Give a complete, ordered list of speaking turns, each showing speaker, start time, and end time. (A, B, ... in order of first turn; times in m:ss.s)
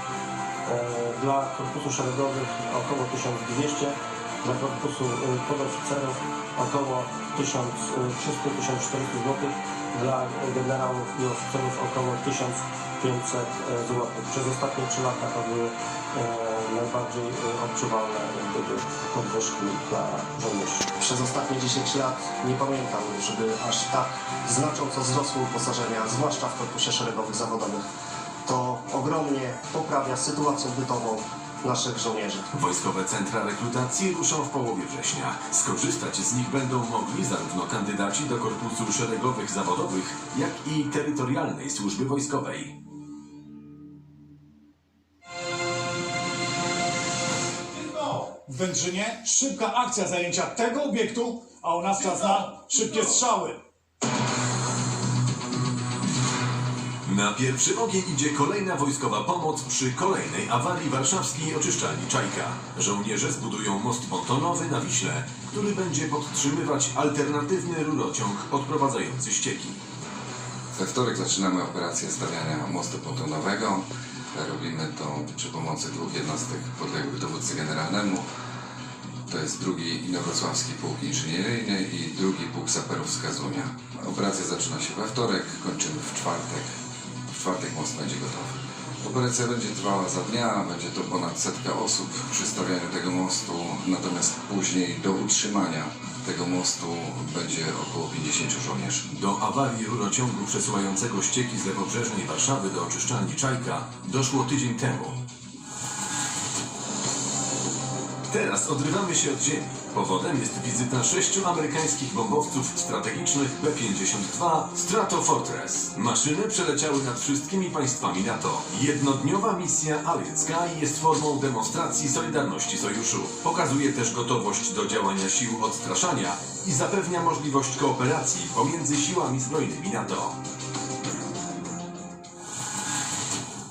0:00.6-0:20.9 A
0:21.0-0:27.8 B
0:28.4-0:32.4 B
0:32.5-0:42.7 C
0:48.4-0:53.6 D
0:57.0-1:09.8 C
1:10.7-1:18.3 E
1:19.3-1:26.7 E
1:27.3-1:39.0 E
1:39.1-1:45.2 C
1:48.3-2:10.4 C